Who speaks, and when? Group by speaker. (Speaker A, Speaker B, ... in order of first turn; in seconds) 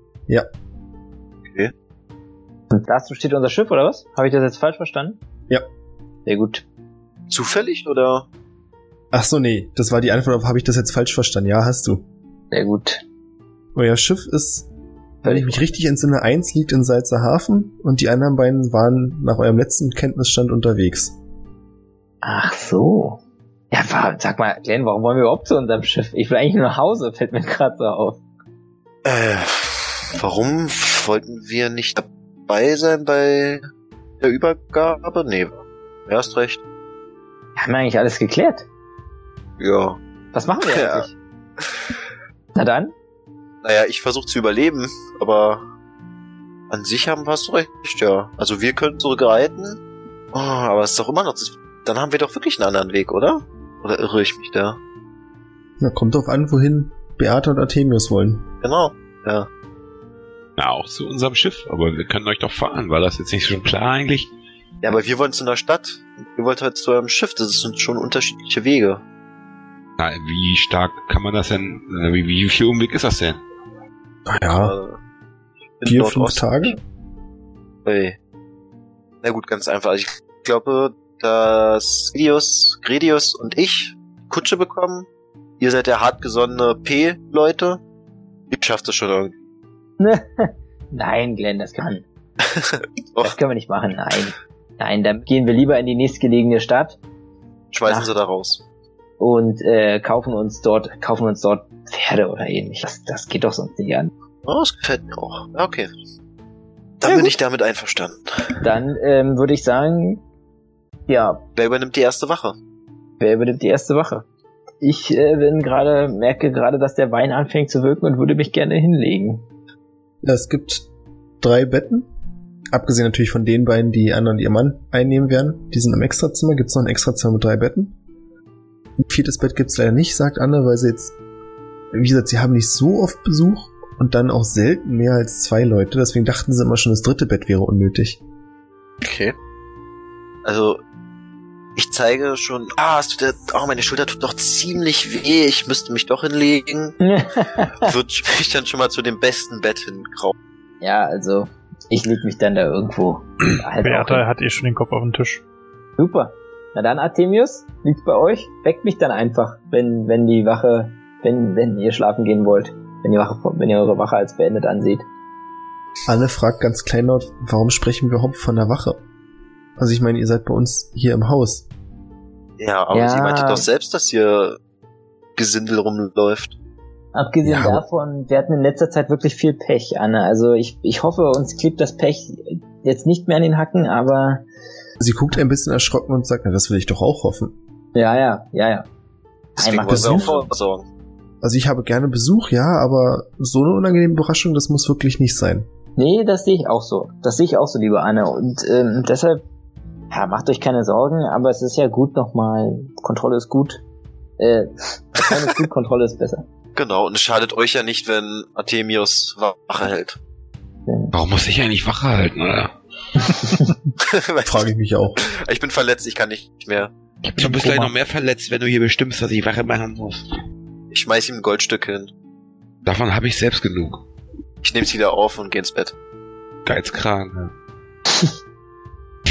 Speaker A: 1.4-1.7, 7.3-8.3, 29.0-33.7, 34.2-36.6, 39.6-40.0, 40.6-41.1, 43.6-45.6, 46.7-49.8, 50.3-54.8, 58.6-59.5, 64.8-69.0, 74.5-75.0, 75.8-76.8, 77.8-78.2, 79.2-85.1, 85.6-87.8, 88.5-89.3, 92.4-93.3, 97.7-98.6, 104.4-105.9, 107.0-108.6, 111.5-112.5, 139.0-139.3, 140.4-140.8, 141.8-146.9, 147.8-150.3, 172.6-174.6, 175.3-176.5, 189.6-190.8, 206.8-210.2, 214.0-214.7, 215.2-216.9, 220.9-222.1, 224.6-225.9
Speaker B: 2.7-5.2, 6.2-6.6, 12.5-13.0, 15.2-15.6, 22.2-23.2, 23.7-28.2, 37.5-38.6, 40.3-41.1, 42.5-42.9, 90.0-92.0, 93.2-97.0, 97.8-98.1, 99.2-104.1, 107.0-107.3, 108.6-110.2, 111.1-111.4, 113.2-114.2, 114.8-119.4, 147.0-147.9, 150.8-154.2, 156.0-165.1, 172.9-173.7, 177.1-184.4, 187.9-188.9, 189.6-190.4, 196.0-199.4, 200.1-203.8, 204.4-206.4, 210.9-211.1, 213.3-213.7
Speaker C: 9.1-12.1, 13.7-14.7, 15.2-21.2, 55.8-58.5, 74.3-74.7, 75.8-76.8, 120.2-120.8, 121.4-122.1, 122.7-128.0, 129.0-131.1, 131.9-138.2, 166.1-169.0, 169.8-171.7, 177.4-177.8, 185.0-187.5, 191.4-195.7, 214.4-215.2
Speaker D: 60.6-64.3, 70.0-73.4, 211.1-212.7, 217.3-220.3, 222.8-224.0, 226.7-227.5
Speaker E: 153.8-155.4, 217.2-217.9